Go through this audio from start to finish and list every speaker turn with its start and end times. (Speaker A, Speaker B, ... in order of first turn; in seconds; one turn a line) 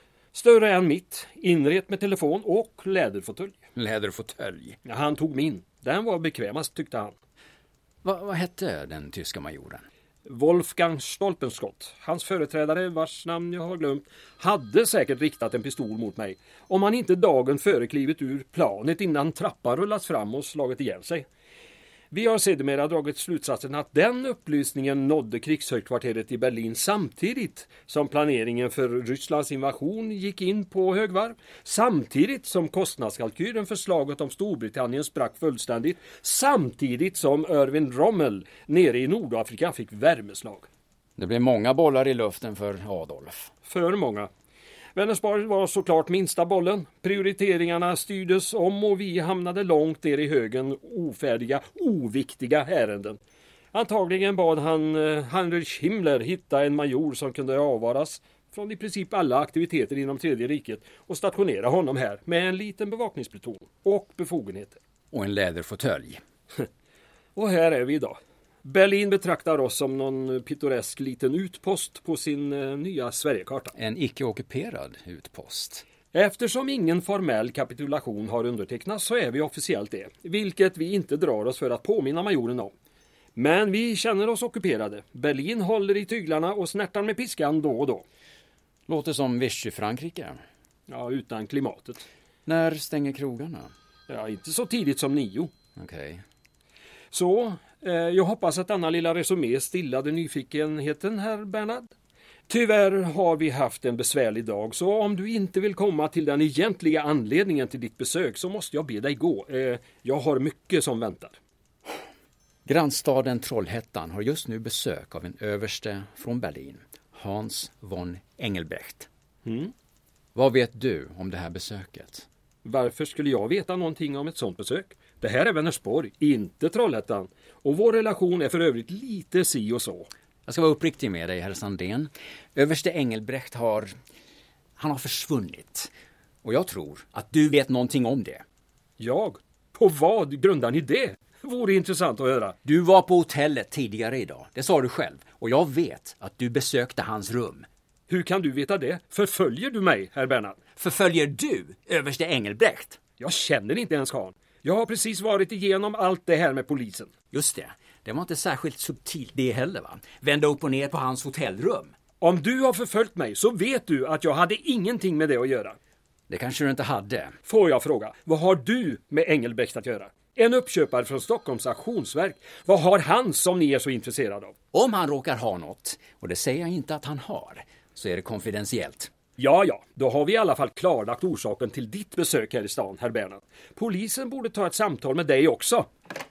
Speaker A: 0.3-3.6
Speaker B: 3.8-4.8
Speaker A: 4.9-7.2
Speaker B: 8.0-9.8
Speaker A: 10.2-21.3
Speaker A: 22.1-40.7
Speaker B: 41.2-43.5
Speaker A: 43.7-44.3
Speaker A: 45.0-53.2
Speaker A: 53.7-64.8
Speaker B: 65.1-66.2
Speaker A: 67.4-73.7
Speaker B: 73.8-75.8
Speaker A: 76.1-82.7
Speaker A: 83.4-88.0
Speaker B: 88.9-90.4
Speaker A: 90.9-92.1
Speaker B: 92.5-93.7
Speaker A: 94.1-95.5
Speaker B: 95.8-96.2
Speaker A: 97.1-101.9
Speaker A: 102.5-111.4
Speaker B: 112.7-119.1
Speaker A: 119.5-119.7
Speaker B: 120.3-122.3
Speaker A: 122.7-130.1
Speaker B: 130.5-133.9
Speaker B: 134.8-135.9
Speaker B: 136.4-138.4
Speaker A: 139.0-142.6
Speaker B: 142.7-147.7
Speaker A: 148.1-150.6
Speaker B: 150.8-153.0
Speaker A: 153.2-157.1
Speaker B: 157.3-161.9
Speaker A: 162.2-165.8
Speaker B: 166.3-167.4
Speaker A: 167.5-174.6
Speaker B: 174.7-179.1
Speaker A: 179.4-185.9